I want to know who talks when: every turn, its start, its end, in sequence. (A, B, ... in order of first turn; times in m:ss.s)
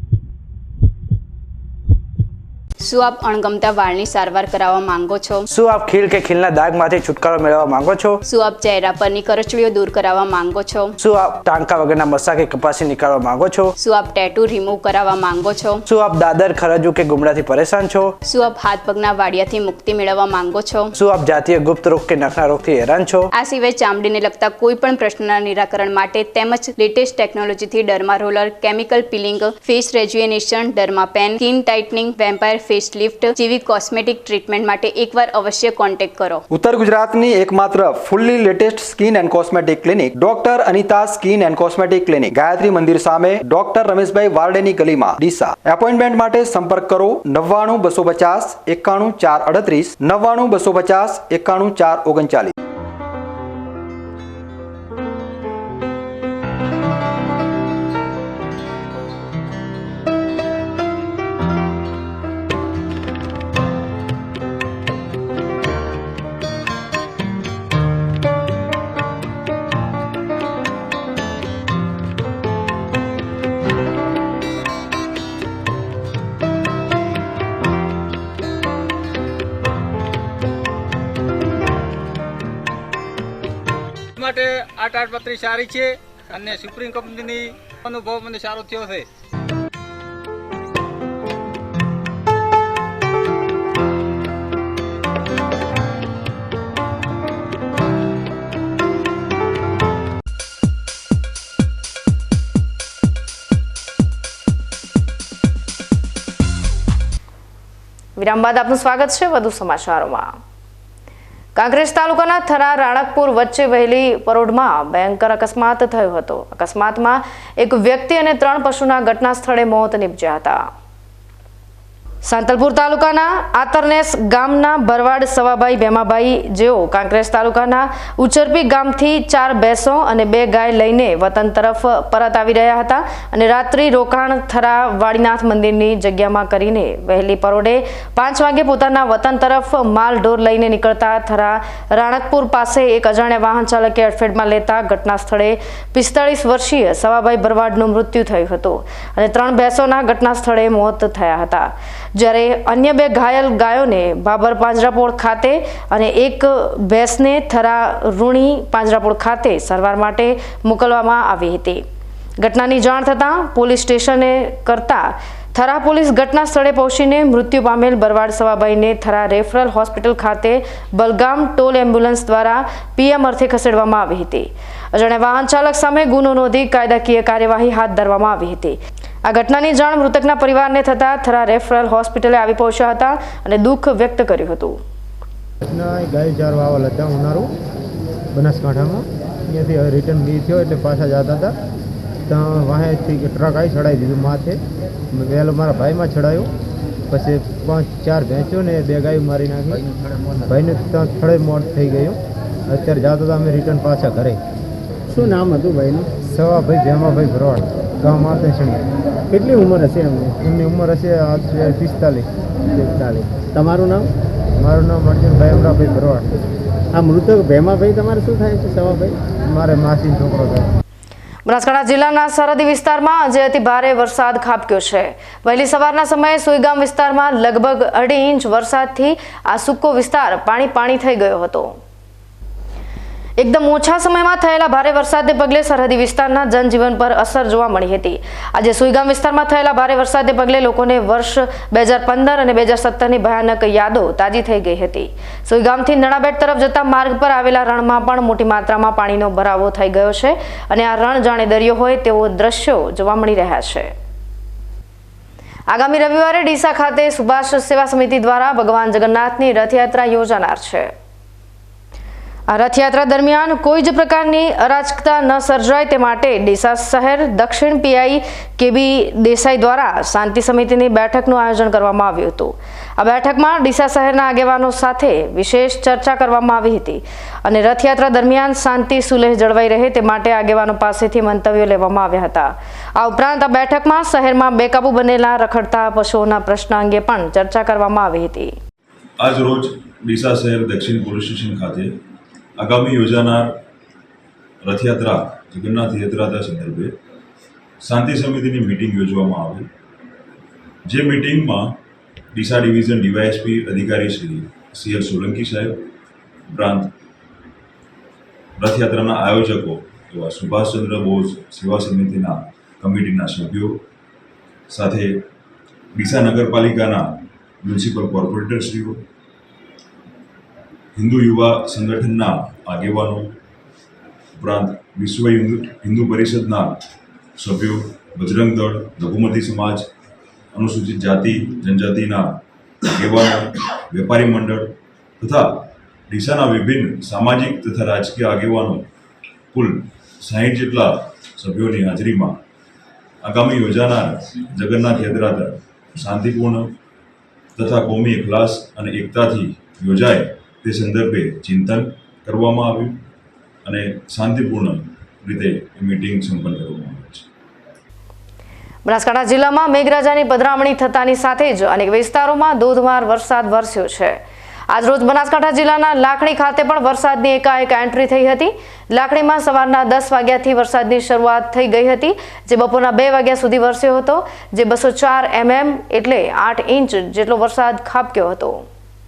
0:02.8-0:05.4 A
0:05.5-0:08.2 B
0:08.2-0:10.9 A
0:11.0-0:13.7 B
0:13.8-0:15.8 A
0:15.8-0:18.1 B
0:18.2-0:20.9 A
0:21.0-0:23.3 B
0:23.3-0:36.4 A
0:36.5-0:52.5 C
1:24.2-1:29.0 D
1:48.2-1:50.3 E
1:51.5-2:00.6 E
2:02.2-2:41.8 E
2:42.4-3:04.8 E
3:05.6-3:07.5 F
3:08.3-3:11.6 F
3:12.2-3:14.6 F
3:15.1-3:16.5 F
3:17.1-3:19.8 F
3:20.5-3:24.4 F
3:25.1-3:34.1 F
3:34.6-3:36.3 F
3:36.9-3:40.7 F
3:41.5-3:51.8 E
3:53.4-4:13.9 E
4:15.7-4:20.9 E
4:22.5-4:48.6 E
4:49.2-4:52.0 G
4:52.6-4:53.6 G
4:54.6-4:56.9 G
4:57.8-4:59.7 G
5:00.8-5:01.8 G
5:02.3-5:05.9 G
5:06.5-5:06.9 G
5:08.6-5:13.8 G
5:14.7-5:15.2 G
5:15.9-5:19.0 G
5:21.0-5:23.4 G
5:24.4-5:26.8 G
5:27.4-5:29.8 G
5:30.5-5:38.9 G
5:39.5-5:42.4 G
5:43.2-5:46.8 G
5:47.6-5:53.0 G
5:53.6-5:57.2 G
5:58.9-6:04.2 E
6:04.7-6:18.6 E